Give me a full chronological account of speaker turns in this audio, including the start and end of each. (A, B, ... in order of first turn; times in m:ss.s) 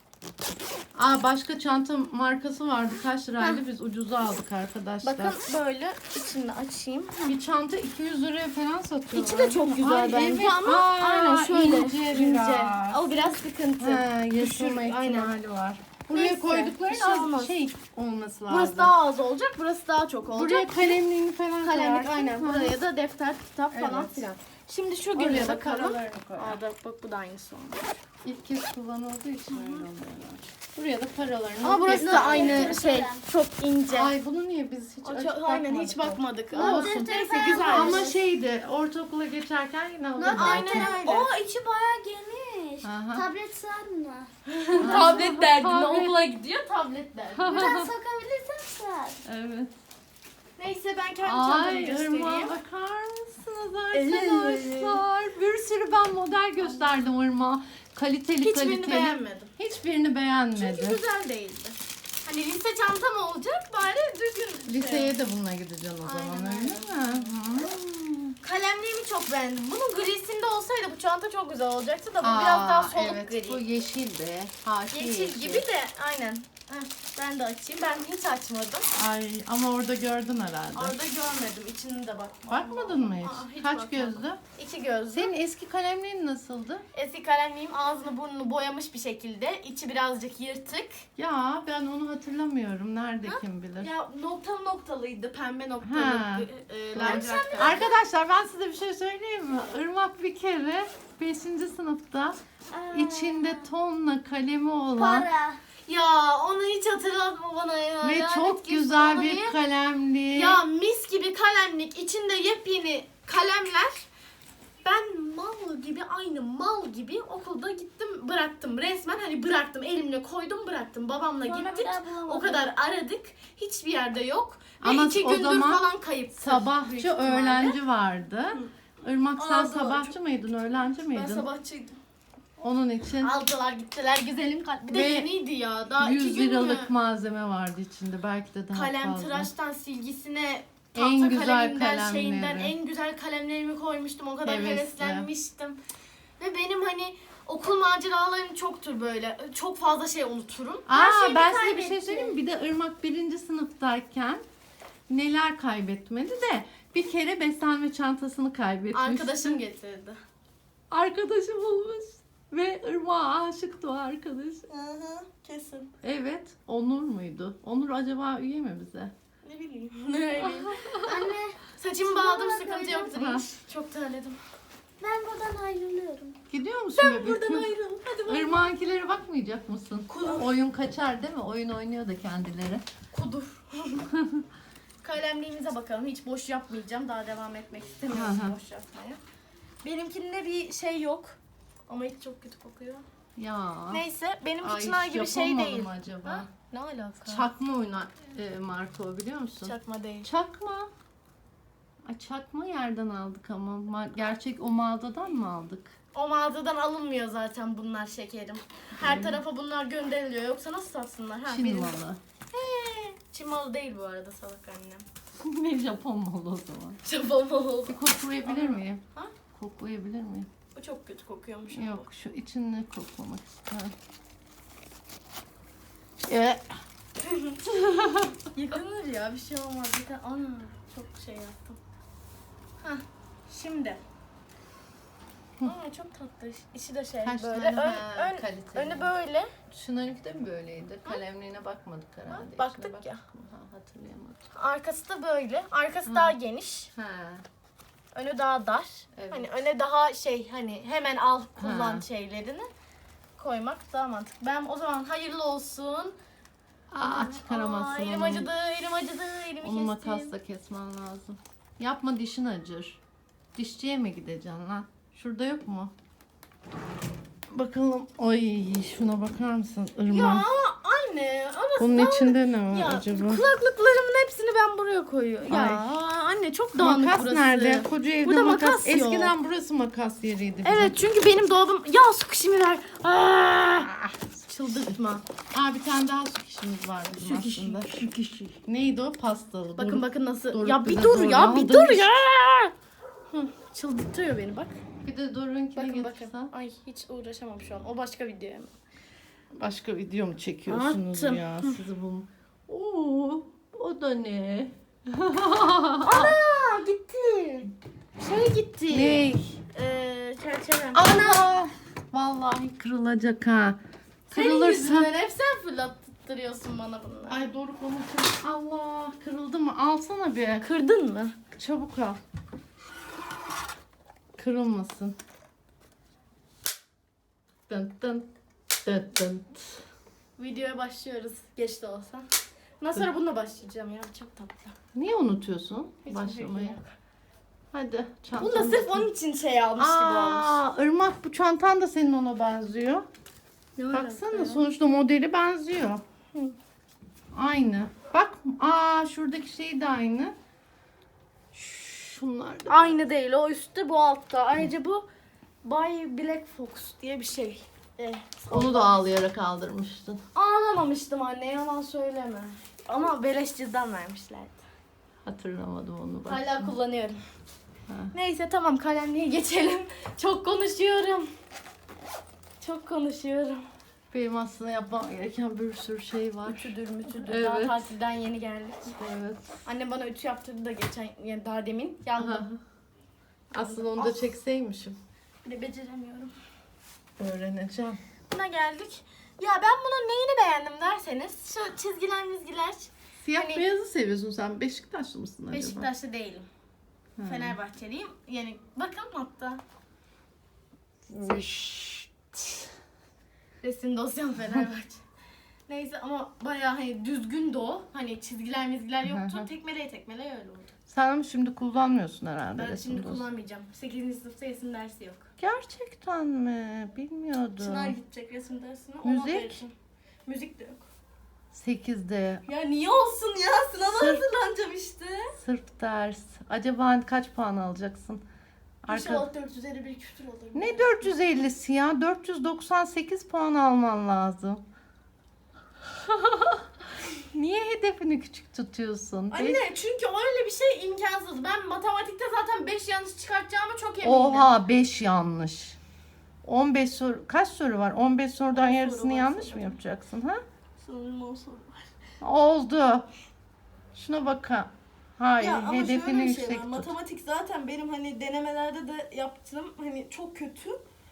0:00.9-0:05.4 A
0:05.0-0:07.3 B
0:07.3-0:13.0 A
0:09.1-0:15.3 B
0:13.8-0:18.9 A
0:16.1-0:17.5 B
0:18.5-0:21.0 B
0:20.3-0:22.7 A
0:21.6-0:28.0 B
0:23.7-0:24.4 A
0:25.1-0:26.6 A
0:28.2-0:32.8 A
0:29.5-0:29.9 B
0:31.6-0:34.1 B
0:31.8-0:33.2 C
0:33.9-0:41.0 A
0:35.0-0:38.1 B
0:36.5-0:38.2 C
0:40.2-0:45.1 C
0:40.3-0:41.3 B
0:42.8-0:43.2 A
0:44.4-0:47.7 B
0:44.7-0:46.2 A
0:47.4-0:47.9 A
0:47.5-0:49.2 C
0:49.2-0:49.7 A
0:50.6-0:52.5 B
0:51.2-1:01.0 A
0:53.9-0:55.0 B
0:58.4-0:59.5 B
1:00.5-1:05.1 B
1:04.7-1:08.4 A
1:06.0-1:07.3 B
1:08.4-1:13.6 B
1:12.2-1:15.6 A
1:14.9-1:18.9 B
1:18.9-1:21.0 A
1:20.7-1:25.3 B
1:22.5-1:24.4 A
1:25.1-1:26.8 A
1:26.9-1:31.1 B
1:31.2-1:33.9 A
1:33.3-1:37.8 B
1:35.8-1:42.4 A
1:37.0-1:38.0 C
1:42.7-1:43.7 C
1:42.9-1:45.3 A
1:44.9-1:45.6 C
1:45.9-1:49.6 B
1:48.0-1:50.6 A
1:50.3-1:54.1 B
1:54.8-2:07.8 B
2:01.4-2:02.7 C
2:04.8-2:11.5 A
2:09.4-2:10.1 B
2:11.1-2:12.0 B
2:12.6-2:13.3 A
2:13.2-2:16.9 B
2:14.9-2:15.4 A
2:16.0-2:19.5 A
2:18.7-2:25.8 B
2:20.9-2:22.7 A
2:24.4-2:25.3 A
2:26.4-2:32.4 B
2:30.8-2:34.4 A
2:35.1-2:39.6 A
2:38.9-2:40.2 B
2:40.9-2:44.7 A
2:44.7-2:45.9 B
2:46.0-2:49.1 A
2:49.4-2:51.0 B
2:50.4-2:51.2 A
2:51.0-2:53.1 C
2:51.7-2:54.4 B
2:53.1-2:53.4 A
2:55.0-2:56.4 C
2:56.5-2:57.7 A
2:57.0-2:58.6 B
2:58.3-3:02.8 A
3:00.1-3:00.5 B
3:03.1-3:04.1 B
3:04.1-3:04.4 A
3:05.0-3:09.2 B
3:08.1-3:08.6 A
3:09.8-3:11.4 B
3:11.9-3:13.0 B
3:13.4-3:14.0 A
3:13.9-3:17.4 B
3:14.6-3:16.5 A
3:17.3-3:20.9 A
3:19.6-3:20.3 B
3:22.0-3:26.0 A
3:26.1-3:32.0 B
3:29.0-3:29.4 A
3:31.5-3:32.2 A
3:32.5-3:35.0 B
3:35.4-3:37.0 A
3:37.0-3:39.3 B
3:37.9-3:39.0 A
3:39.5-3:40.5 A
3:40.7-3:42.0 B
3:41.7-3:43.9 A
3:46.2-3:46.7 A
3:47.2-3:47.6 B
3:47.7-3:48.4 A
3:48.5-3:51.8 B
3:52.8-3:54.0 B
3:55.6-3:59.5 B
3:57.2-3:59.1 A
3:59.7-4:04.5 A
4:02.3-4:03.2 B
4:04.5-4:06.9 B
4:06.0-4:06.4 A
4:06.9-4:07.4 A
4:08.1-4:12.7 B
4:09.1-4:09.5 A
4:11.6-4:12.0 A
4:13.4-4:16.2 B
4:16.9-4:18.5 A
4:17.0-4:20.3 B
4:19.6-4:23.0 A
4:23.6-4:25.9 A
4:27.5-4:30.4 A
4:30.1-4:39.3 B
4:31.8-4:33.4 A
4:35.5-4:35.9 A
4:36.8-4:41.0 A
4:40.6-4:45.2 B
4:45.5-4:52.2 A
4:47.2-4:48.6 B
4:49.8-4:52.7 B
4:53.3-4:54.7 B
4:55.0-4:56.5 A
4:55.7-4:58.7 B
4:59.5-5:06.3 A
5:00.7-5:01.8 B
5:06.0-5:11.4 B
5:08.9-5:09.6 A
5:10.9-5:15.1 A
5:14.3-5:17.4 B
5:17.3-5:20.7 A
5:20.6-5:21.4 B
5:21.5-5:22.2 A
5:24.4-5:25.2 A
5:27.7-5:28.3 A
5:28.8-5:29.8 A
5:30.4-5:32.3 B
5:32.8-5:34.8 B
5:34.9-5:36.8 A
5:36.0-5:36.9 B
5:37.7-5:39.1 A
5:38.4-5:40.6 B
5:39.8-5:43.1 A
5:43.8-5:44.6 B
5:43.9-5:46.0 A
5:47.3-5:50.3 A
5:51.5-5:53.0 A
5:52.7-5:55.1 B
5:55.6-5:59.0 B
5:58.5-6:00.2 A
6:00.3-6:04.6 B
6:05.2-6:06.7 A
6:06.2-6:07.2 B
6:08.1-6:11.3 B
6:12.6-6:13.6 B
6:14.1-6:17.9 A
6:16.4-6:19.0 B
6:18.9-6:19.6 A
6:19.6-6:22.4 B
6:22.2-6:22.6 A
6:23.5-6:25.0 A
6:23.6-6:24.3 B
6:25.4-6:26.3 B
6:27.2-6:28.0 A
6:28.3-6:33.7 B
6:33.2-6:35.9 A
6:35.5-6:36.4 B
6:37.2-6:37.6 A
6:37.2-6:39.6 B
6:41.1-6:42.4 A
6:43.6-6:45.0 B
6:45.7-6:50.7 B
6:49.0-6:49.5 A
6:50.9-6:53.2 A
6:52.6-6:55.3 B
6:55.4-6:58.0 A
6:57.6-6:59.7 B
6:59.0-6:59.6 A
7:00.2-7:00.9 B
7:01.5-7:02.4 A
7:02.4-7:05.4 B
7:03.8-7:04.2 A
7:05.4-7:08.2 A
7:08.8-7:09.3 A
7:08.9-7:11.1 B
7:10.5-7:14.6 A
7:15.9-7:16.7 A
7:17.2-7:19.6 A
7:19.3-7:24.5 B
7:24.0-7:25.8 A
7:26.4-7:30.4 A
7:28.5-7:29.8 B
7:30.8-7:31.8 B
7:32.2-7:33.1 A
7:33.9-7:36.9 A
7:35.4-7:40.8 B